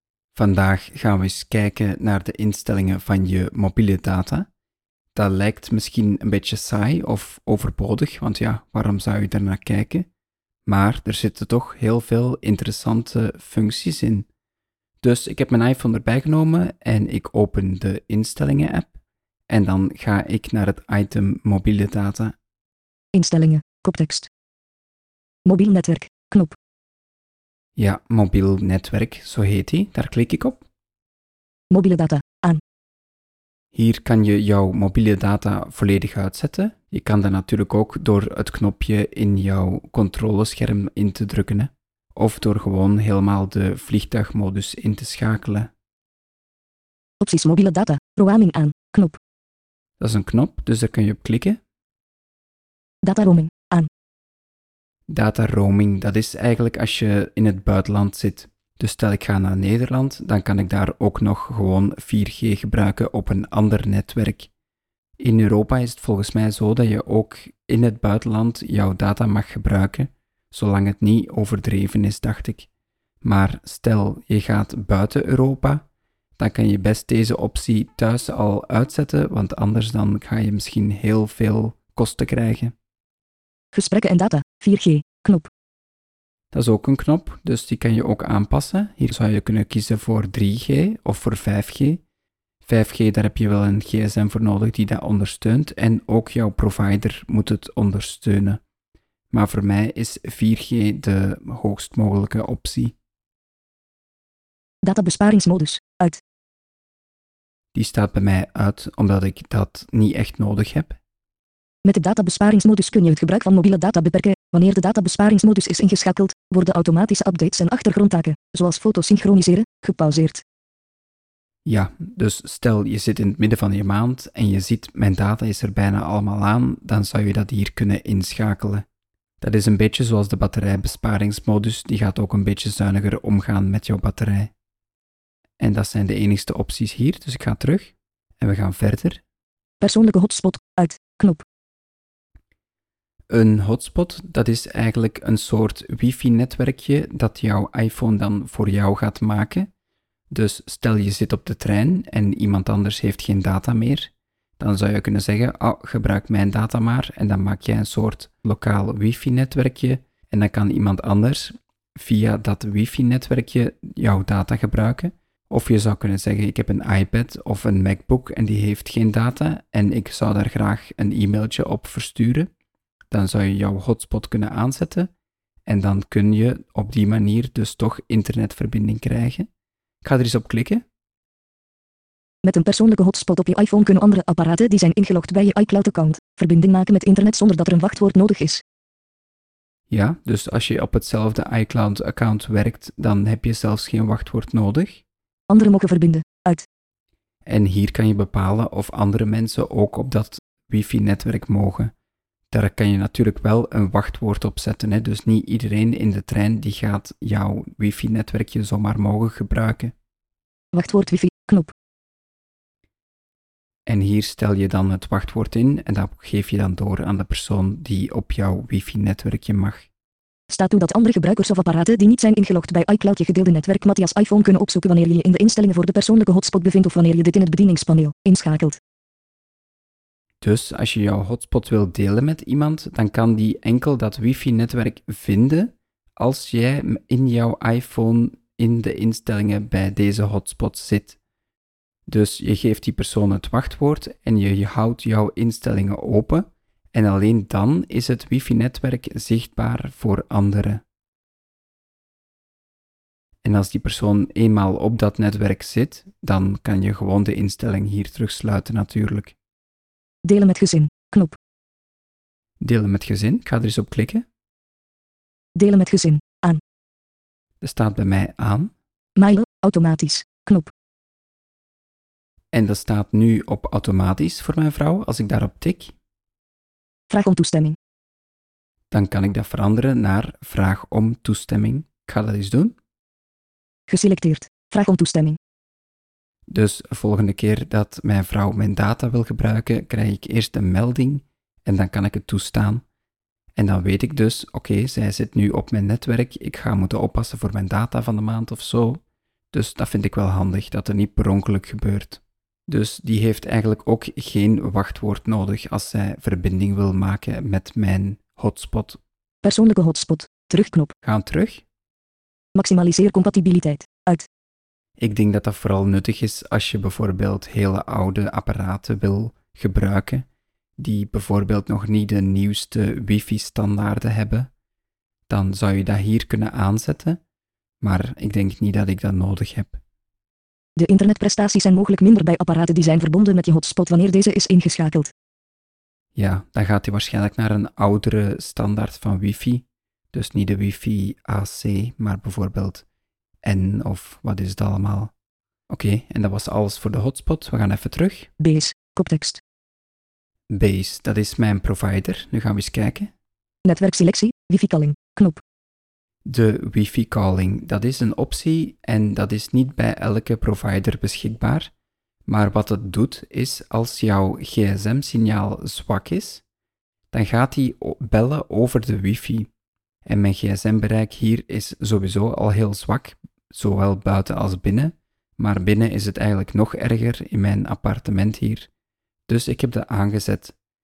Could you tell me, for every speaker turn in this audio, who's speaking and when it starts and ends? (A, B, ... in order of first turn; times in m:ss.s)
0:00.3-0:04.5 A
0:05.1-0:10.1 A
0:10.7-0:14.3 A
0:15.0-0:19.0 A
0:19.5-0:22.4 A
0:23.1-0:24.3 B
0:25.4-0:26.6 B
0:27.8-0:30.6 A
0:31.7-0:32.6 B
0:33.7-0:45.7 A
0:47.2-0:49.2 B
0:50.0-0:51.6 A
0:53.0-0:53.9 B
0:55.1-1:04.5 A
1:05.2-1:12.7 A
1:13.2-1:15.9 A
1:16.4-1:22.7 A
1:23.7-1:25.5 B
1:26.5-1:32.0 A
1:32.6-1:38.6 A
1:39.3-1:43.0 A
1:44.8-1:46.2 B
1:47.7-1:51.0 A
1:51.8-2:00.4 B
2:01.7-2:08.9 A
2:09.4-2:14.5 A
2:15.6-2:19.2 A
2:19.8-2:21.4 B
2:23.3-2:29.7 A
2:30.3-2:52.5 A
2:53.1-2:55.1 A
2:55.7-2:59.5 A
3:00.0-3:00.8 A
3:02.4-3:08.6 B
3:09.9-3:15.0 A
3:15.5-3:16.7 B
3:17.5-3:21.9 A
3:22.5-3:29.9 A
3:30.7-3:31.7 B
3:33.9-3:39.9 A
3:40.5-3:48.8 B
3:50.4-4:01.2 A
4:02.1-4:10.8 A
4:13.4-4:19.4 A
4:20.2-4:21.4 B
4:22.6-4:24.2 A
4:25.6-4:26.6 B
4:27.6-4:28.7 A
4:29.2-4:30.7 B
4:32.5-4:36.0 A
4:37.1-4:37.8 B
4:38.9-4:42.8 A
4:43.9-4:45.4 B
4:46.5-4:52.8 A
4:53.6-5:09.0 A
5:09.4-5:10.9 B
5:11.0-5:11.6 A
5:12.6-5:14.3 B
5:15.0-5:20.3 A
5:20.8-5:24.5 A
5:25.3-5:27.2 A
5:27.8-5:29.8 A
5:30.8-5:35.1 B
5:36.2-5:42.9 A
5:43.4-5:45.1 A
5:45.7-5:48.3 A
5:48.4-5:49.4 B
5:50.5-5:53.1 A
5:53.6-5:55.4 B
5:56.3-6:01.7 A
6:02.3-6:06.4 A
6:07.1-6:09.5 A
6:10.1-6:18.7 A
6:19.3-6:20.6 A